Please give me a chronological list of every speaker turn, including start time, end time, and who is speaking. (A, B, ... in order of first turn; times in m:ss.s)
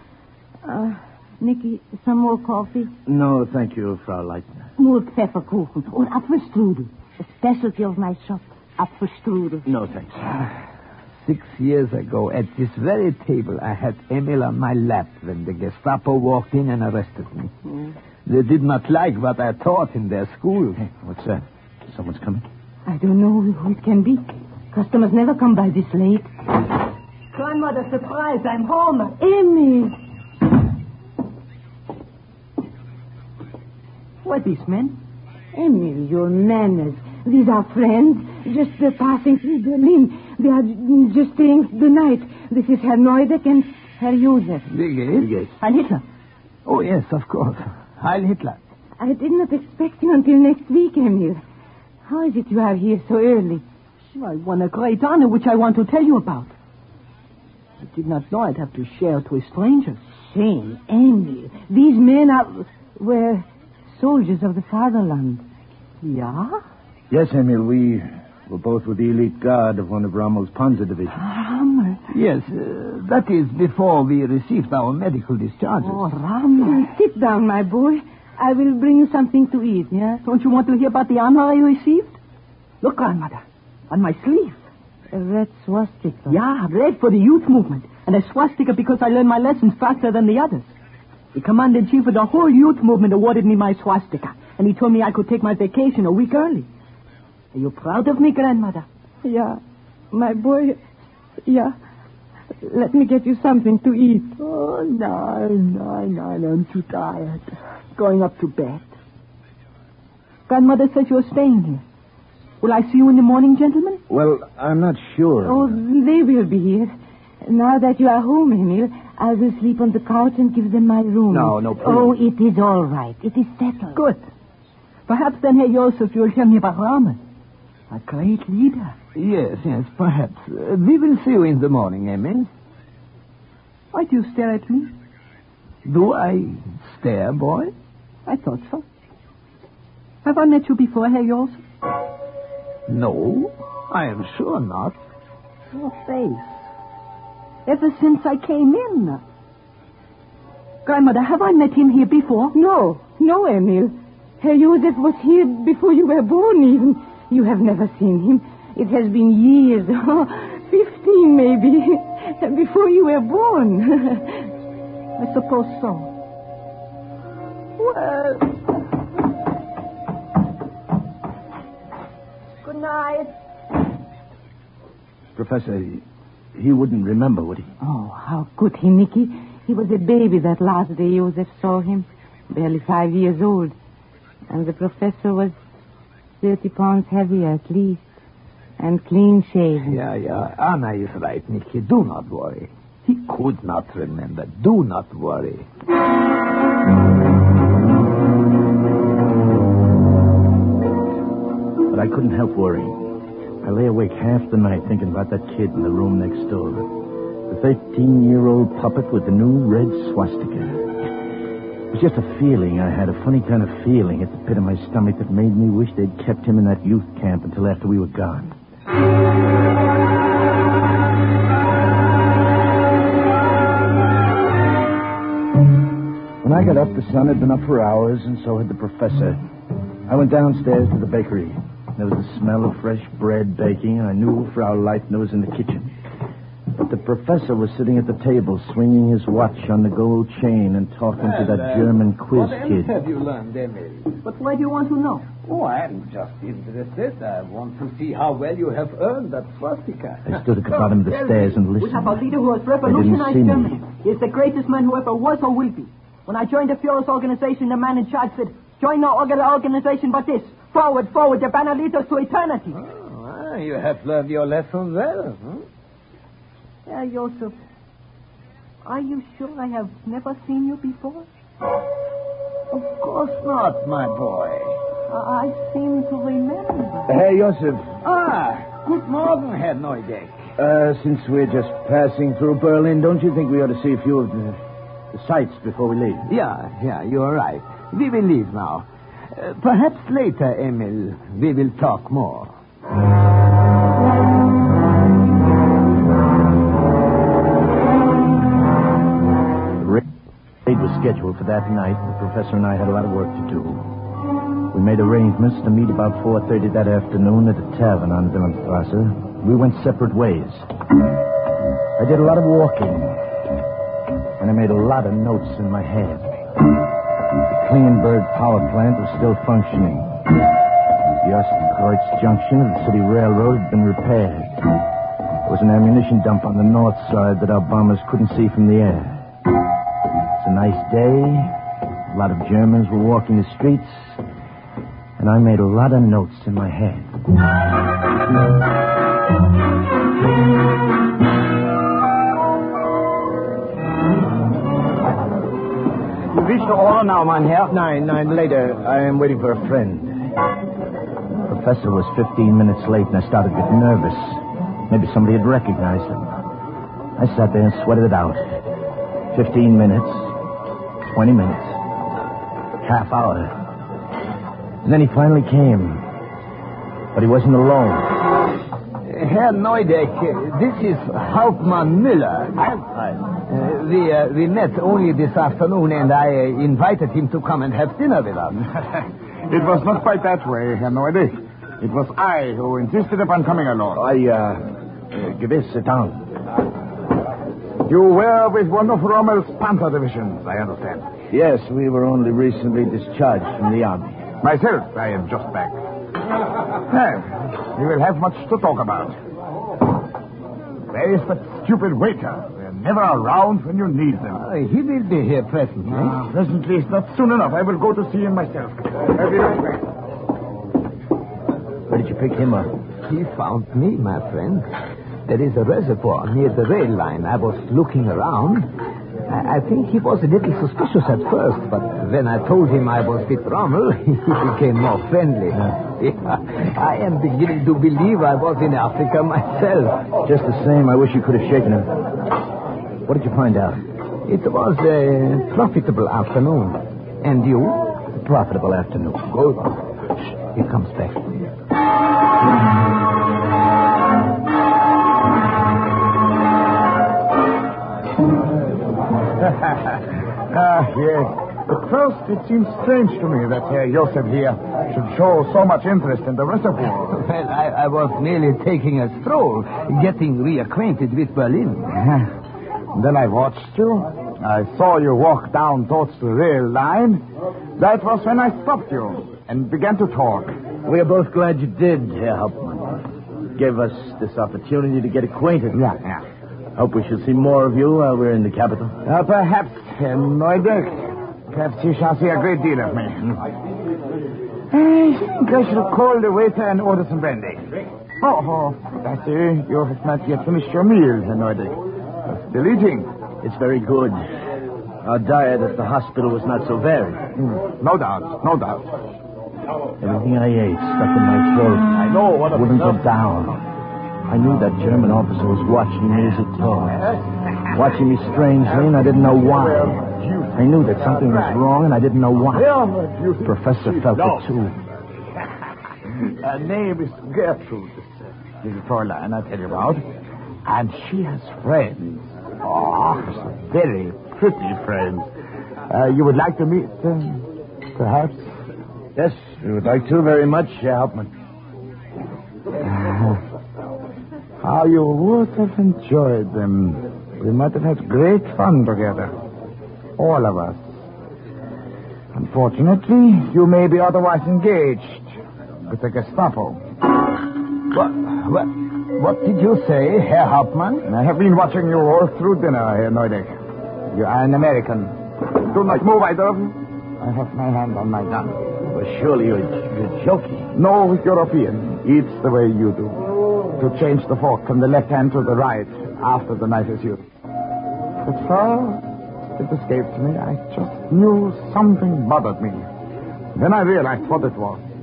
0:00.6-0:02.9 A
0:03.1-0:04.6 B
0:04.8-0:09.6 A
0:09.7-0:10.1 B
0:11.2-0:17.5 C
0:18.3-0:20.8 C
0:20.8-0:22.4 B
0:22.9-0:26.3 A
0:27.3-0:29.2 D
0:29.2-0:30.0 A
0:34.2-0:35.0 D
0:35.5-0:44.7 A
0:44.7-0:45.3 C
0:45.2-0:45.6 B
0:45.6-0:46.0 D
0:46.7-0:48.6 C
0:49.0-0:51.4 A
0:52.0-0:53.6 A
0:54.1-0:56.5 D
0:57.8-1:00.0 D
1:00.1-1:05.4 A
1:06.0-1:06.5 A
1:07.1-1:11.2 B
1:11.2-1:12.0 A
1:12.1-1:16.1 C
1:15.9-1:16.8 D
1:16.6-1:20.2 A
1:20.2-1:22.2 D
1:22.8-1:24.6 D
1:25.1-1:26.4 A
1:26.3-1:30.7 D
1:31.3-1:36.7 D
1:37.5-1:38.9 D
1:39.2-1:39.6 A
1:40.1-1:40.8 A
1:41.4-1:41.8 A
1:42.6-1:44.4 A
1:44.4-1:48.9 D
1:50.5-1:51.8 D
1:52.6-1:54.0 D
1:54.1-1:55.8 B
1:55.4-2:04.0 A
2:01.3-2:02.2 B
2:03.9-2:04.2 D
2:05.1-2:07.2 D
2:07.9-2:09.0 D
2:09.2-2:12.5 C
2:13.9-2:14.9 D
2:15.9-2:17.7 C
2:18.3-2:18.8 D
2:20.2-2:21.6 D
2:22.9-2:25.0 C
2:25.7-2:26.6 D
2:27.7-2:29.2 D
2:30.8-2:32.6 D
2:32.5-2:44.5 A
2:45.2-2:46.1 D
2:47.8-2:48.4 D
2:52.6-2:53.3 D
2:55.4-2:56.0 B
2:56.6-2:57.7 B
2:57.8-3:03.8 A
3:04.5-3:05.6 A
3:06.4-3:08.0 A
3:08.8-3:10.0 A
3:09.8-3:15.7 C
3:21.9-3:26.9 B
3:27.5-3:31.0 B
3:31.9-3:38.6 B
3:46.4-3:49.4 B
3:50.1-3:55.9 B
3:56.8-4:03.0 B
4:01.2-4:04.1 C
4:04.2-4:05.3 D
4:05.4-4:11.6 C
4:10.3-4:12.2 B
4:11.8-4:22.8 D
4:12.8-4:13.8 B
4:22.7-4:25.6 C
4:26.9-4:27.6 D
4:28.8-4:31.2 D
4:32.7-4:34.8 C
4:35.1-4:37.1 D
4:37.1-4:37.9 B
4:38.0-4:40.4 C
4:40.6-4:44.6 B
4:45.1-4:46.3 B
4:46.3-4:52.5 C
4:59.8-5:00.1 B
5:00.7-5:03.9 B
5:04.7-5:10.7 B
5:12.0-5:13.2 B
5:14.4-5:16.3 B
5:17.5-5:20.2 B
5:21.2-5:24.7 B
5:25.5-5:29.2 B
5:30.4-5:31.5 B
5:32.1-5:34.2 B
5:35.2-5:37.1 B
5:46.4-5:47.6 E
5:47.7-5:50.3 B
5:51.5-5:56.4 B
5:57.2-5:58.6 B
5:59.3-6:00.4 B
6:01.0-6:01.8 B
6:02.8-6:03.6 B
6:04.8-6:06.1 B
6:07.1-6:08.2 B
6:09.1-6:12.8 C
6:13.5-6:18.6 C
6:19.5-6:24.0 E
6:24.0-6:26.2 B
6:27.8-6:31.1 E
6:31.3-6:34.2 B
6:34.4-6:35.8 E
6:36.9-6:39.2 E
6:40.9-6:44.4 E
6:44.3-6:46.2 C
6:45.9-6:49.8 E
6:51.9-6:52.7 B
6:53.1-6:54.7 C
6:55.3-6:58.7 C
6:59.3-7:10.0 C
7:10.2-7:11.9 B
7:13.0-7:13.8 B
7:14.3-7:17.8 C
7:18.1-7:19.3 B
7:19.3-7:19.8 C
7:20.4-7:21.4 C
7:29.4-7:37.2 E
7:37.1-7:41.9 C
7:41.9-7:42.3 E
7:42.9-7:47.2 E
7:47.8-7:50.6 E
7:50.8-7:55.8 B
7:55.7-7:56.2 E
7:56.8-7:59.0 B
7:59.0-8:03.4 E
8:04.7-8:13.1 E
8:13.4-8:14.2 B
8:15.0-8:17.3 B
8:17.4-8:19.0 E
8:20.0-8:23.7 B
8:22.0-8:22.9 E
8:24.3-8:27.2 B
8:27.7-8:30.0 B
8:29.3-8:31.6 E
8:30.5-8:32.7 B
8:32.5-8:34.5 E
8:33.4-8:34.8 B
8:36.3-8:38.1 E
8:38.6-8:40.0 E
8:40.6-8:45.3 E
8:45.9-8:48.6 E
8:49.2-8:51.3 B
8:52.8-8:53.4 E
8:54.6-8:59.3 E
9:00.2-9:00.9 E
9:02.3-9:05.3 E
9:05.9-9:06.8 E
9:07.9-9:11.1 C
9:11.1-9:13.5 E
9:14.1-9:15.2 E
9:15.7-9:18.6 E
9:18.9-9:20.7 B
9:20.8-9:23.2 E
9:23.8-9:27.2 E
9:28.2-9:32.9 E
9:33.6-9:34.8 E